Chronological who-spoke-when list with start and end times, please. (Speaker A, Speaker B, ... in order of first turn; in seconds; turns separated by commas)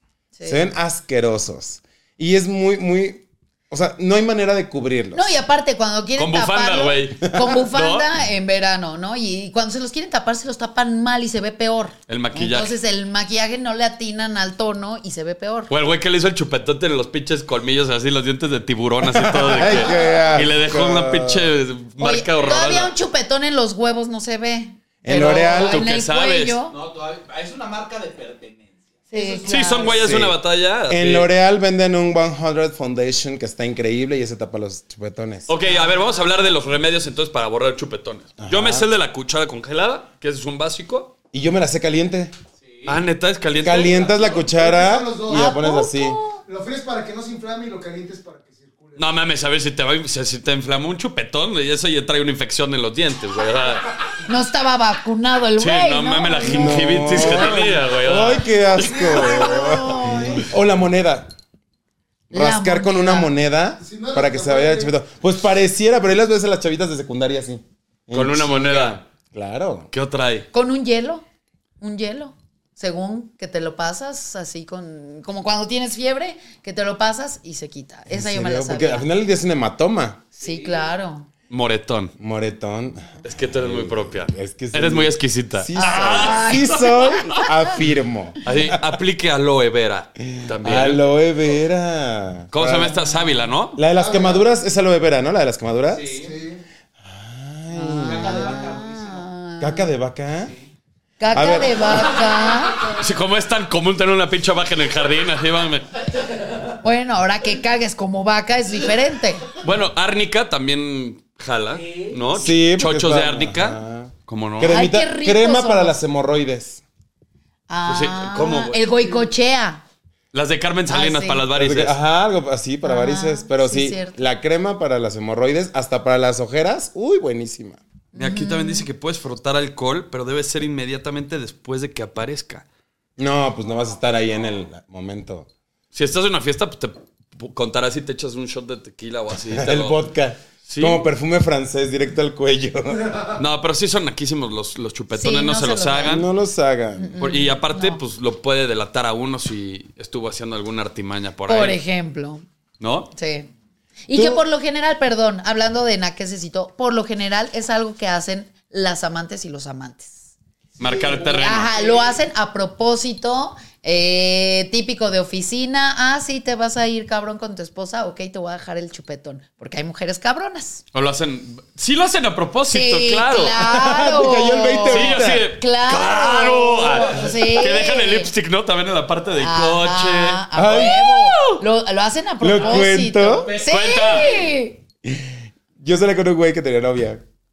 Speaker A: 0.4-0.7, Speaker B: 0.4-5.3, Speaker A: 5.1-15.7, Speaker C: 6.2-8.1, Speaker C: 12.1-12.7, Speaker C: 15.7-22.9, Speaker B: 19.0-21.5, Speaker A: 22.0-26.8, Speaker B: 25.0-25.8, Speaker C: 25.6-26.6, Speaker D: 26.7-30.1, Speaker A: 29.1-30.0, Speaker C: 29.5-31.3, Speaker B: 30.0-35.5, Speaker C: 35.5-41.1, Speaker B: 38.4-38.9, Speaker B: 41.3-42.3, Speaker D: 42.6-43.0, Speaker C: 42.9-44.0, Speaker B: 43.6-46.2, Speaker D: 43.9-44.3, Speaker E: 44.4-45.6, Speaker A: 45.3-46.4, Speaker E: 46.5-49.1, Speaker C: 49.0-53.9, Speaker A: 54.2-57.4, Speaker C: 55.6-59.6, Speaker B: 56.4-61.3, Speaker A: 59.2-60.4, Speaker A: 62.3-63.3, Speaker B: 62.3-69.9, Speaker E: 63.8-64.9, Speaker C: 68.1-69.0, Speaker C: 69.9-70.5, Speaker A: 70.5-71.2, Speaker A: 71.8-79.1, Speaker B: 78.1-80.2, Speaker D: 80.4-80.8, Speaker A: 80.4-81.3, Speaker C: 81.5-82.1, Speaker B: 82.2-88.8, Speaker C: 83.2-86.7, Speaker A: 85.8-87.5, Speaker C: 88.4-91.0, Speaker B: 90.3-93.0, Speaker C: 92.5-93.8, Speaker A: 93.0-93.4, Speaker B: 93.7-96.2, Speaker E: 93.9-94.5, Speaker D: 95.9-96.3, Speaker E: 96.1-96.6, Speaker B: 97.0-98.7, Speaker A: 97.7-99.9, Speaker D: 98.0-99.2, Speaker B: 99.6-100.5, Speaker A: 101.2-102.9, Speaker B: 101.3-102.2, Speaker C: 103.0-105.9, Speaker A: 106.8-109.5, Speaker C: 109.6-114.8, Speaker D: 111.7-112.1, Speaker B: 112.3-116.8, Speaker A: 114.7-116.0, Speaker A: 117.7-119.8, Speaker C: 117.8-118.8, Speaker C: 120.3-122.0, Speaker A: 120.9-121.5, Speaker B: 121.5-127.8, Speaker A: 122.8-124.2, Speaker A: 128.1-128.8, Speaker C: 128.2-132.7, Speaker B: 133.2-135.5, Speaker C: 135.9-140.0, Speaker B: 139.5-143.1, Speaker C: 140.7-141.0, Speaker C: 143.4-146.3, Speaker A: 145.1-146.2, Speaker B: 146.0-147.2, Speaker A: 147.0-148.0, Speaker C: 147.2-151.8, Speaker A: 151.5-152.4, Speaker C: 152.8-153.1, Speaker A: 153.1-153.5, Speaker A: 154.1-160.3, Speaker B: 154.1-154.4, Speaker C: 160.8-161.8, Speaker A: 161.2-170.8, Speaker C: 170.9-173.6, Speaker A: 172.7-178.3, Speaker B: 173.6-175.5, Speaker C: 174.9-181.6, Speaker A: 179.4-184.8, Speaker B: 180.5-181.0, Speaker B: 182.4-183.5, Speaker D: 183.4-184.2, Speaker C: 183.7-184.4, Speaker B: 185.1-187.2